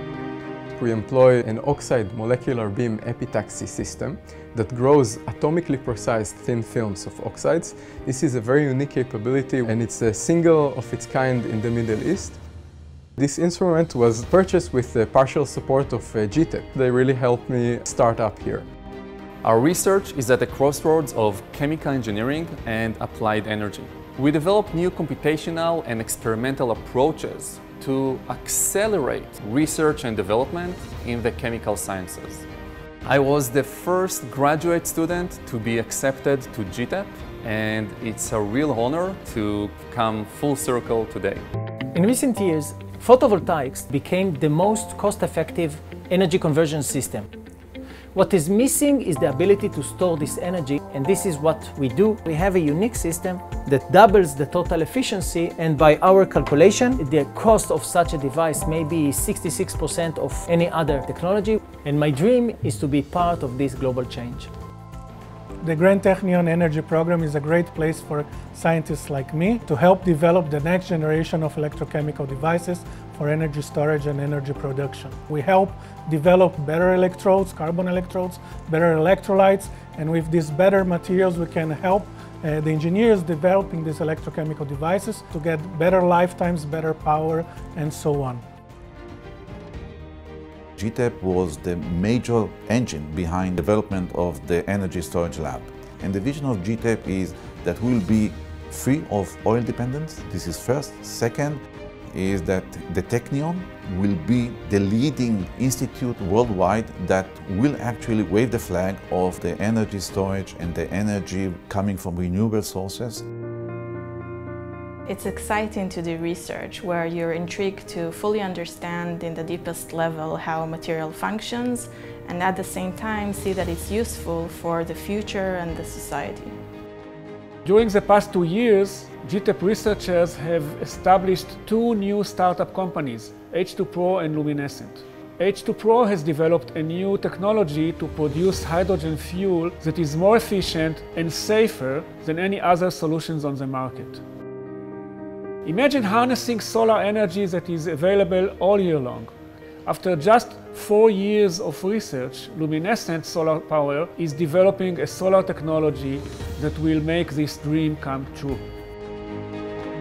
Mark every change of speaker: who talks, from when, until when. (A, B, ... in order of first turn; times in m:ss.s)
0:00.7-0:12.4 A
0:13.2-0:18.7 A
0:19.4-0:32.4 B
0:33.0-0:41.4 B
0:41.9-0:47.3 C
0:48.1-1:04.5 C
1:05.6-1:28.4 D
1:30.8-1:41.6 E
1:42.2-1:53.2 E
1:55.0-2:06.6 F
2:07.6-2:24.2 G
2:25.6-2:29.3 G
2:29.8-2:38.6 G